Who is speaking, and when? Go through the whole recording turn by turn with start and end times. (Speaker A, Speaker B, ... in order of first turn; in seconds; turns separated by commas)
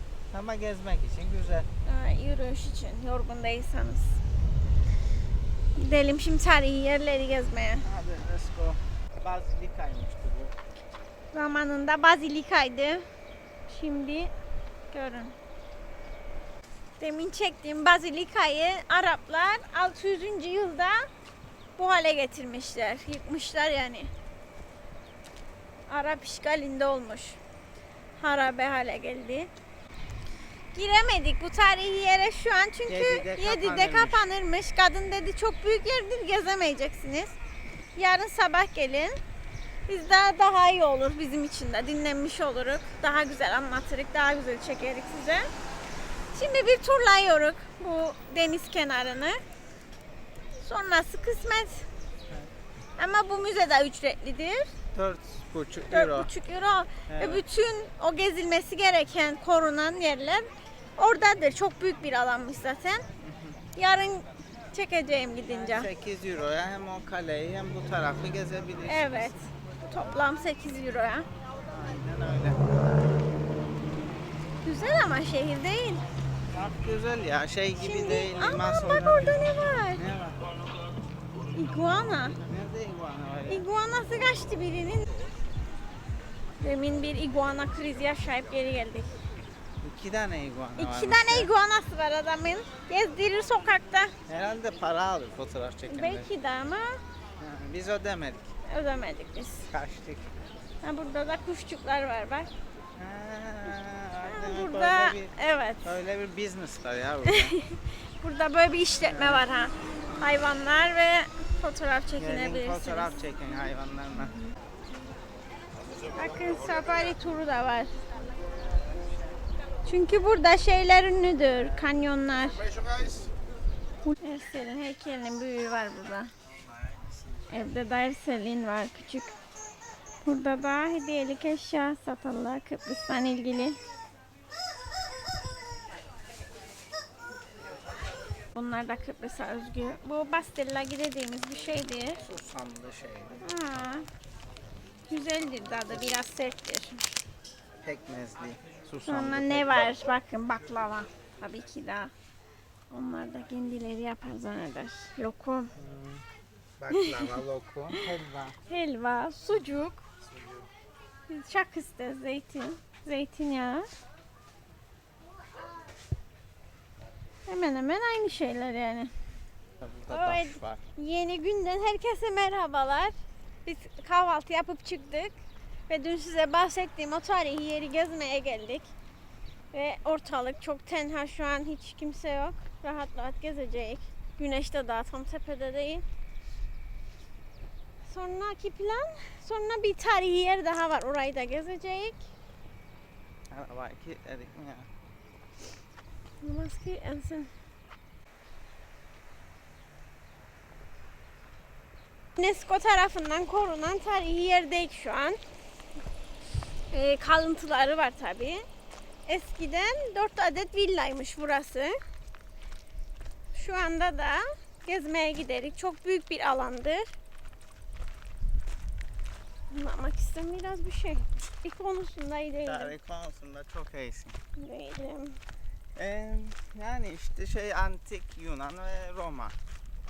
Speaker A: 0.3-1.7, Speaker B: 1.9-4.2, Speaker B: 5.8-7.8, Speaker A: 7.8-10.5, Speaker B: 11.3-13.1, Speaker B: 13.7-14.3, Speaker B: 14.9-15.3, Speaker B: 17.0-21.1, Speaker B: 21.8-24.1, Speaker B: 25.9-27.4, Speaker B: 28.2-29.5, Speaker B: 30.7-37.3, Speaker A: 32.9-34.2, Speaker B: 38.0-39.2, Speaker B: 39.9-45.5, Speaker B: 46.3-49.4, Speaker B: 50.6-51.9, Speaker B: 53.0-54.7, Speaker A: 54.9-56.3, Speaker B: 55.9-63.0, Speaker A: 57.1-57.4, Speaker A: 63.2-63.6, Speaker B: 63.8-65.9, Speaker A: 65.5-69.4, Speaker B: 68.9-71.2, Speaker A: 71.6-73.2, Speaker B: 74.6-76.0, Speaker A: 76.5-80.5, Speaker B: 77.8-80.0, Speaker B: 81.5-82.4, Speaker A: 82.4-83.7, Speaker B: 83.5-85.1, Speaker B: 86.6-89.1, Speaker A: 89.8-91.5, Speaker B: 90.8-94.1, Speaker A: 94.3-96.3, Speaker B: 95.9-97.0, Speaker A: 97.4-98.5, Speaker B: 98.7-99.7, Speaker A: 99.7-100.3, Speaker B: 100.8-102.5, Speaker A: 103.0-105.3, Speaker B: 104.2-105.9, Speaker A: 105.8-107.5, Speaker B: 107.2-113.1, Speaker A: 109.0-109.5, Speaker A: 112.2-114.4, Speaker B: 116.1-117.9, Speaker B: 119.8-122.8, Speaker A: 121.5-121.9, Speaker B: 124.0-126.3, Speaker A: 126.4-127.7, Speaker B: 127.5-129.3, Speaker B: 130.2-133.8, Speaker B: 138.5-142.2, Speaker A: 142.2-143.4, Speaker B: 143.4-144.1, Speaker B: 145.1-147.0, Speaker A: 147.8-150.2, Speaker B: 149.0-152.1, Speaker B: 152.9-155.7, Speaker A: 155.7-156.2, Speaker A: 156.8-158.6, Speaker B: 156.9-158.1, Speaker B: 158.7-160.0, Speaker A: 160.3-160.7, Speaker B: 161.3-163.9, Speaker B: 167.4-169.1, Speaker A: 169.8-170.8, Speaker B: 170.1-178.9, Speaker B: 179.7-186.0, Speaker B: 188.1-192.2, Speaker A: 193.5-194.9, Speaker B: 196.4-197.5, Speaker B: 202.3-205.4, Speaker B: 206.9-208.6, Speaker B: 209.2-211.9, Speaker B: 213.5-217.1, Speaker B: 219.7-222.9, Speaker A: 222.6-224.4, Speaker B: 224.6-225.4, Speaker A: 225.9-229.6